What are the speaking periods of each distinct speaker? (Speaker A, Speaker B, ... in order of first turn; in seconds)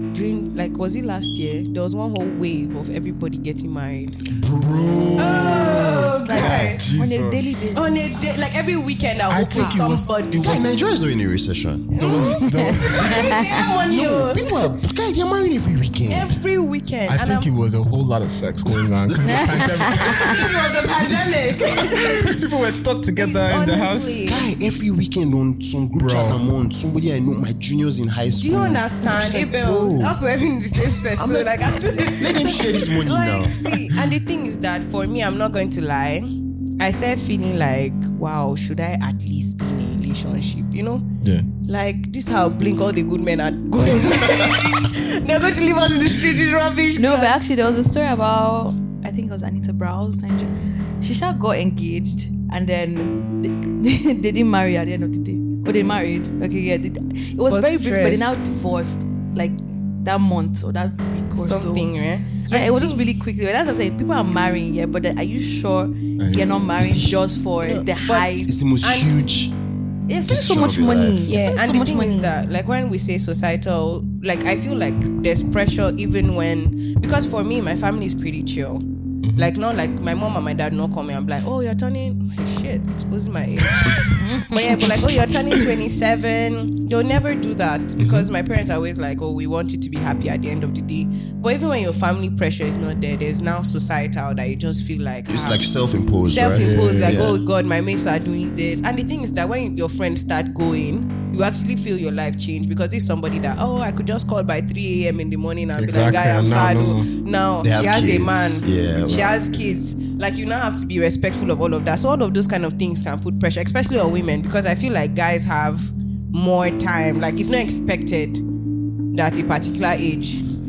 Speaker A: 0.1-4.2, 5.2-6.8, 7.8-10.7, 11.9-14.6, 16.1-17.5, 19.9-22.4, 23.2-24.4, 28.3-41.1, 41.7-47.4, 57.5-58.4, 61.4-63.1, 67.6-69.3, 71.3-78.8, 79.4-95.7, 96.3-118.4, 119.1-120.5
Speaker B: 4.3-6.4, 10.3-12.3, 13.6-16.4, 19.0-21.8, 24.2-30.2, 31.2-34.0, 66.8-67.2, 68.5-69.5, 70.3-71.4, 95.3-97.4, 107.6-109.3
Speaker C: 4.6-7.8, 9.3-10.7, 12.0-13.3, 17.1-20.3, 22.0-24.4, 25.9-26.4, 41.2-41.5, 66.2-66.5, 79.2-79.5, 88.0-88.3, 96.5-97.2, 105.8-107.1
Speaker D: 6.2-8.4, 9.6-9.8, 12.4-13.4, 19.3-20.3, 47.0-61.9, 62.5-68.5, 70.1-72.4, 84.2-84.6